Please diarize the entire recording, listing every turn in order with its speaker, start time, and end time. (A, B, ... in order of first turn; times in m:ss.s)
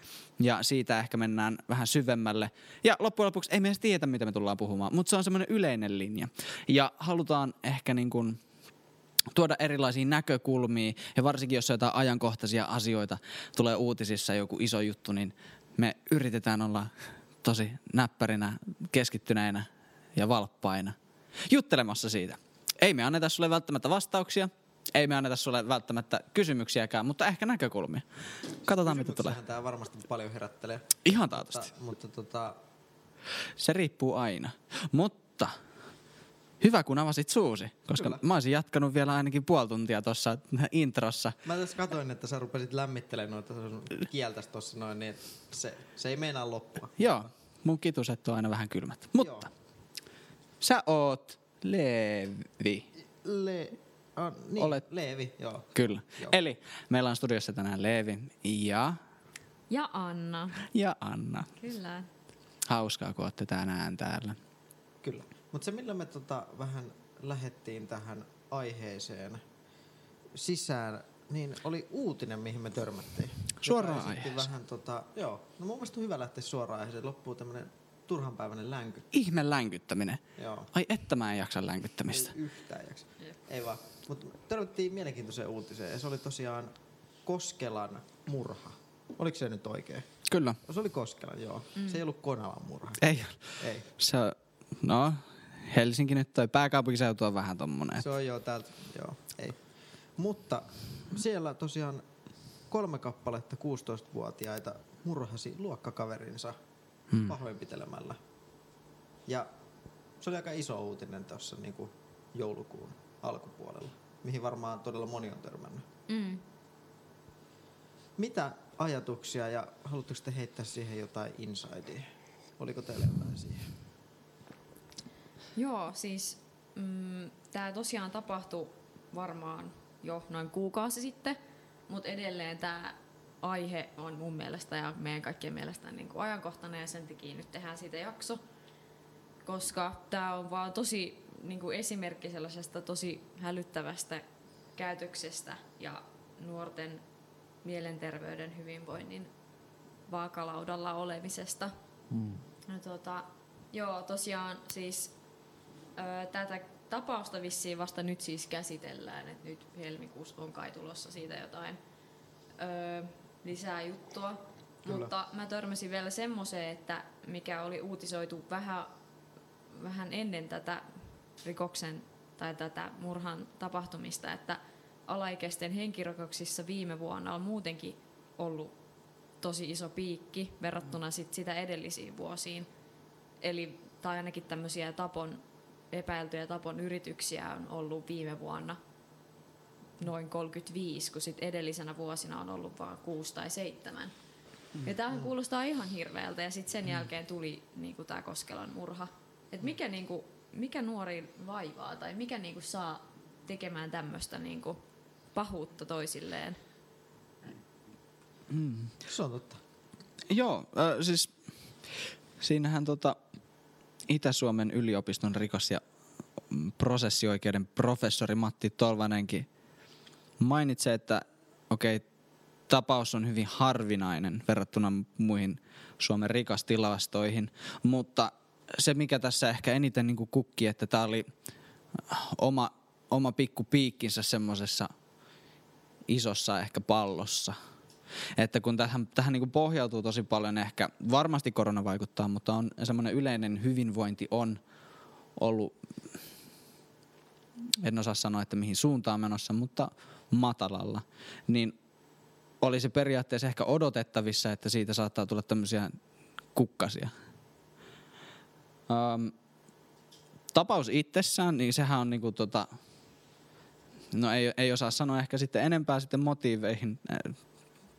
0:00.4-0:08.4 A
0:09.3-0:28.0 A
0:28.6-0:29.4 A
0:28.7-0:32.6 B
0:31.0-0:31.7 A
0:33.6-0:35.6 A
0:36.6-0:41.4 A
0:41.4-0:47.2 B
0:47.0-0:49.5 A
0:49.2-0:49.5 B
0:50.6-0:52.9 A
0:53.2-0:56.4 B
0:54.6-0:54.8 A
0:55.7-0:59.0 A
0:59.7-1:00.7 C
1:00.6-1:01.5 A
1:01.6-1:02.1 C
1:02.7-1:04.4 A
1:05.0-1:09.4 B
1:10.3-1:19.1 B
1:13.6-1:14.5 A
1:19.1-1:22.3 A
1:20.4-1:20.7 B
1:22.1-1:26.7 B
1:27.2-1:30.1 B
1:30.3-1:30.6 A
1:30.6-1:33.0 B
1:33.0-1:33.4 A
1:33.6-1:33.9 B
1:34.0-1:38.1 A
1:38.0-1:39.6 B
1:40.2-1:42.0 B
1:42.7-1:46.6 B
1:47.1-1:47.3 A
1:47.2-1:48.2 B
1:50.2-1:55.8 B
1:56.1-1:56.4 C
1:58.2-2:03.7 B
2:05.6-2:11.4 C
2:11.9-2:18.4 C
2:19.4-2:24.2 C
2:24.8-2:27.0 C
2:27.6-2:29.3 C
2:30.1-2:31.7 C
2:32.6-2:35.1 C
2:36.0-2:41.8 C
2:42.6-2:48.9 C
2:49.7-2:58.7 C
2:59.4-3:02.7 C
3:03.4-3:08.8 C
3:10.0-3:14.1 C
3:14.8-3:24.8 C
3:25.3-3:26.6 C
3:28.5-3:29.0 A
3:29.0-3:29.6 B
3:30.3-3:31.3 A
3:31.9-3:33.2 A
3:34.1-3:35.8 A
3:36.5-3:39.5 A
3:40.4-3:42.0 A
3:42.7-3:51.2 A
3:52.0-3:54.9 A
3:56.1-3:57.6 A
3:58.4-4:04.6 A
4:05.4-4:05.7 A
4:07.8-4:11.7 A
4:12.6-4:16.0 A
4:16.5-4:17.1 A
4:18.9-4:19.3 A
4:20.5-4:22.7 A
4:24.1-4:27.4 A